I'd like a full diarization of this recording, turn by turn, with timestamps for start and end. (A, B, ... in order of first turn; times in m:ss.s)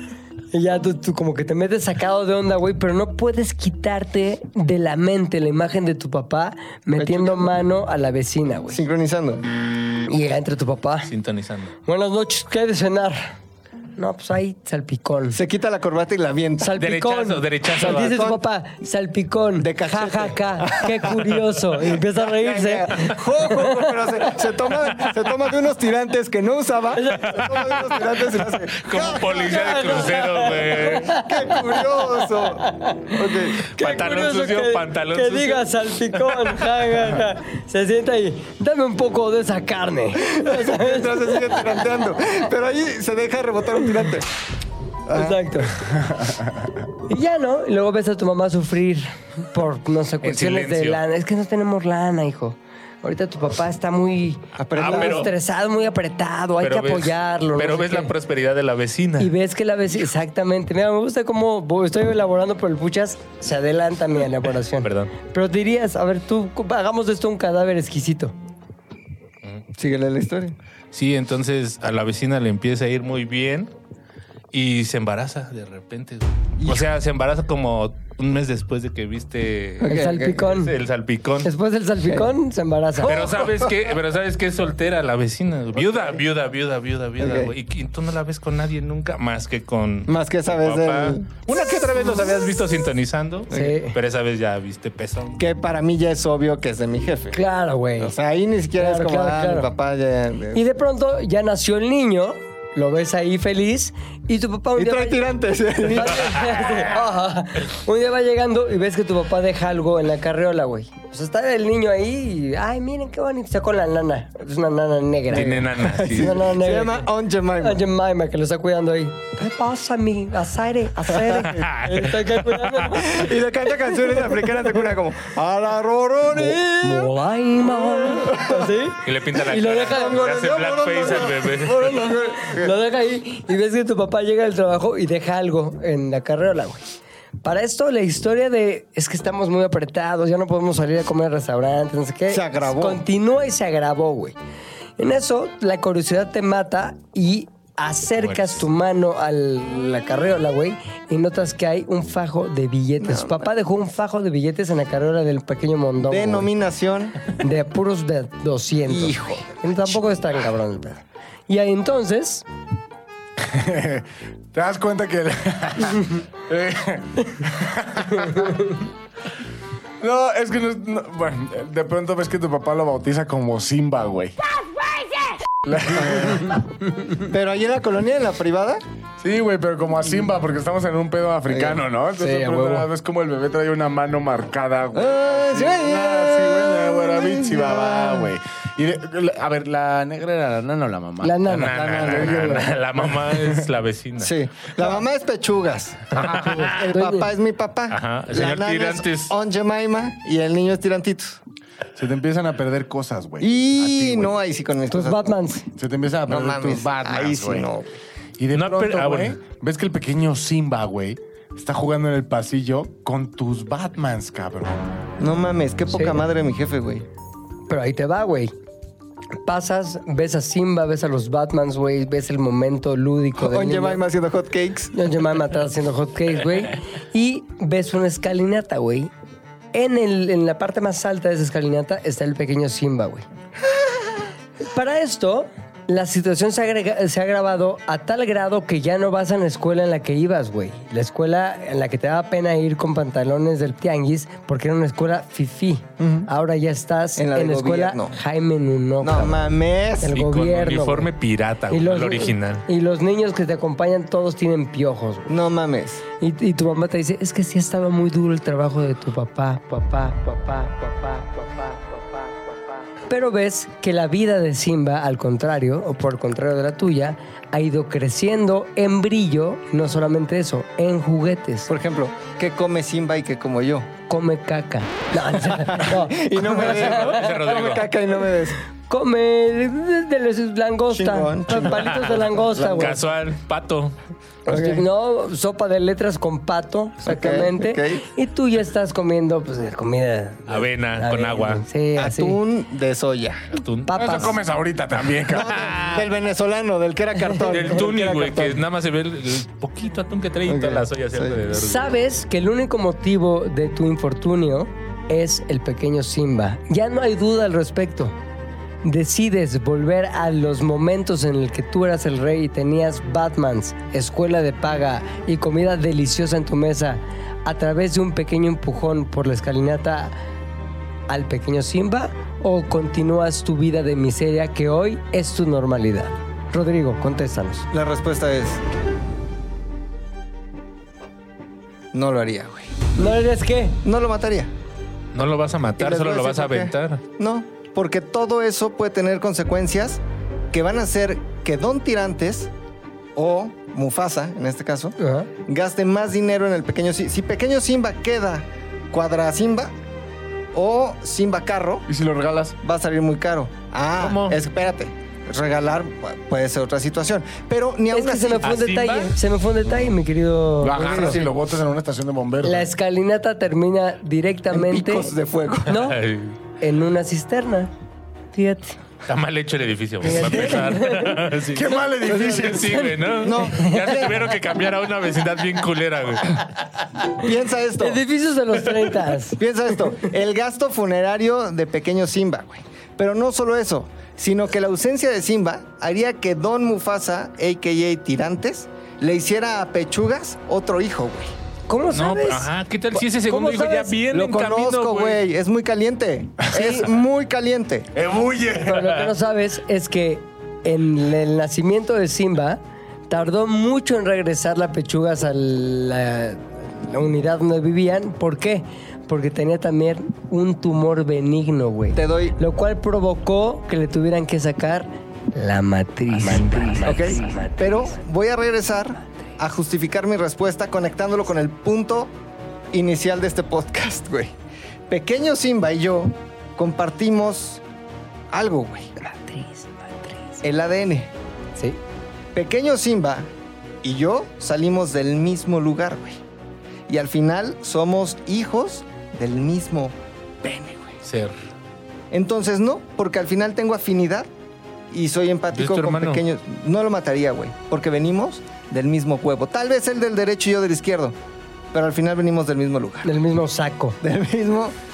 0:00.5-0:08.8 A
0:07.0-0:07.5 B
0:08.7-0:09.4 B
0:10.1-0:11.1 A
0:11.1-0:11.8 C
0:11.9-0:13.4 A
0:14.0-0:15.4 A
0:15.4-0:16.8 B
0:16.6-0:24.0 A
0:16.8-0:18.2 C
0:17.8-0:18.4 B
0:19.6-0:33.6 B
0:27.0-0:27.6 A
0:27.2-0:31.2 C
0:29.2-0:41.7 A
0:33.7-0:35.6 C
0:36.3-0:36.6 C
0:40.2-0:44.3 B
0:45.1-0:45.4 B
0:45.1-0:45.9 A
0:46.1-0:46.7 D
0:47.1-0:58.1 A
0:50.2-0:51.0 C
0:54.6-0:55.3 B
0:54.8-0:55.3 C
0:56.6-0:59.3 C
0:59.2-1:08.4 A
1:04.8-1:05.1 C
1:09.8-1:10.6 B
1:10.9-1:13.7 C
1:14.5-1:21.5 C
1:16.6-1:16.9 B
1:19.8-1:20.5 B
1:19.8-1:20.7 A
1:21.4-1:23.3 A
1:23.0-1:35.4 C
1:23.1-1:23.7 B
1:25.8-1:26.2 B
1:27.2-1:27.5 B
1:30.1-1:31.3 B
1:33.5-1:34.0 A
1:35.4-1:37.4 B
1:37.3-1:38.1 A
1:38.0-1:40.6 B
1:38.8-1:39.7 A
1:40.5-1:45.3 A
1:44.8-1:46.7 B
1:45.9-1:57.1 A
1:55.3-1:56.4 C
1:55.8-1:57.8 B
1:57.6-2:03.3 A
2:01.1-2:01.6 B
2:01.4-2:02.9 C
2:02.9-2:07.1 B
2:03.9-2:04.5 A
2:06.3-2:10.2 A
2:07.8-2:08.7 B
2:09.0-2:12.1 C
2:09.8-2:12.7 B
2:12.1-2:16.8 A
2:17.4-2:24.4 A
2:22.3-2:23.0 B
2:25.0-2:36.5 A
2:28.2-2:28.6 C
2:33.0-2:33.5 B
2:36.1-2:37.3 B
2:37.3-2:42.4 A
2:38.9-2:40.0 B
2:43.4-2:48.6 D
2:48.3-2:48.8 A
2:50.0-2:54.4 D
2:55.6-2:56.6 D
2:55.9-2:56.5 B
2:57.2-2:58.8 B
2:59.2-3:12.6 D
3:01.5-3:01.8 B
3:02.2-3:02.9 A
3:05.0-3:08.3 B
3:11.2-3:11.9 A
3:11.5-3:14.3 C
3:11.7-3:12.7 B
3:14.2-3:21.4 B
3:16.2-3:16.7 C
3:16.4-3:17.3 A
3:17.9-3:19.3 C
3:22.0-3:24.4 D
3:23.4-3:25.4 B
3:24.9-3:25.7 A
3:25.8-3:27.7 D
3:26.3-3:28.0 B
3:28.4-3:34.9 D
3:28.5-3:29.4 C
3:35.2-3:37.1 B
3:35.9-3:36.2 A
3:37.7-3:38.5 A
3:39.4-3:44.0 A
3:43.4-3:44.9 B
3:44.9-3:49.1 A
3:49.7-3:53.2 A
3:54.7-4:09.5 A
4:06.0-4:06.3 B
4:07.2-4:08.2 B
4:09.0-4:10.2 B
4:10.0-4:11.1 A
4:10.1-4:12.6 C
4:11.7-4:15.3 A
4:15.3-4:16.0 B
4:16.2-4:22.1 A
4:23.1-4:31.7 A
4:31.7-4:33.9 B
4:34.1-4:37.4 A
4:35.4-4:38.6 B
4:36.6-4:37.9 C
4:38.9-4:43.0 A
4:40.9-4:42.3 B
4:41.8-4:44.0 C
4:44.5-4:52.4 A
4:44.5-4:44.8 B
4:47.0-4:48.1 B
4:50.5-4:51.6 C
4:52.0-4:53.5 B
4:53.5-4:54.2 C
4:53.9-4:54.4 A
4:53.9-4:55.8 D
4:55.3-4:58.6 B
4:57.5-5:02.0 C
5:00.5-5:01.4 B
5:01.5-5:08.2 A
5:08.8-5:20.2 A
5:21.1-5:27.7 A
5:27.7-5:28.6 B
5:31.9-5:32.8 B
5:33.0-5:33.8 A
5:33.8-5:34.5 B
5:35.1-5:37.0 C
5:35.8-5:42.5 B
5:43.2-5:49.7 B
5:45.0-5:45.3 A
5:50.5-5:51.8 B
5:51.9-5:52.6 D
5:52.6-5:59.1 B
5:54.0-5:54.4 C
5:57.9-6:01.3 A
5:58.4-5:59.1 C
6:00.6-6:02.7 D
6:00.9-6:01.2 B
6:02.4-6:05.1 A
6:04.5-6:05.8 B
6:05.7-6:06.0 A
6:05.7-6:06.4 C
6:06.6-6:07.7 A
6:08.3-6:08.8 A
6:09.1-6:16.5 C
6:10.0-6:11.2 A
6:11.5-6:12.9 D
6:12.1-6:14.1 A
6:13.2-6:14.3 B
6:17.1-6:18.0 B
6:17.8-6:19.4 A
6:19.4-6:31.3 B
6:31.7-6:34.0 A
6:31.9-6:35.2 C
6:34.1-6:37.9 B
6:36.5-6:36.9 A
6:37.9-6:39.0 D
6:38.6-6:58.0 A
6:38.8-6:39.1 C
6:51.9-6:52.4 B
6:56.8-7:02.1 B
7:02.7-7:04.3 B
7:04.9-7:07.6 B
7:08.3-7:08.9 B
7:09.0-7:10.4 A
7:10.4-7:11.1 B
7:12.3-7:13.3 B
7:13.8-7:16.2 B
7:16.9-7:21.0 B
7:21.0-7:21.4 C
7:22.1-7:24.3 B
7:24.9-7:31.2 B
7:25.5-7:26.2 C
7:31.7-7:33.1 B
7:33.0-7:34.0 A
7:34.0-7:34.8 B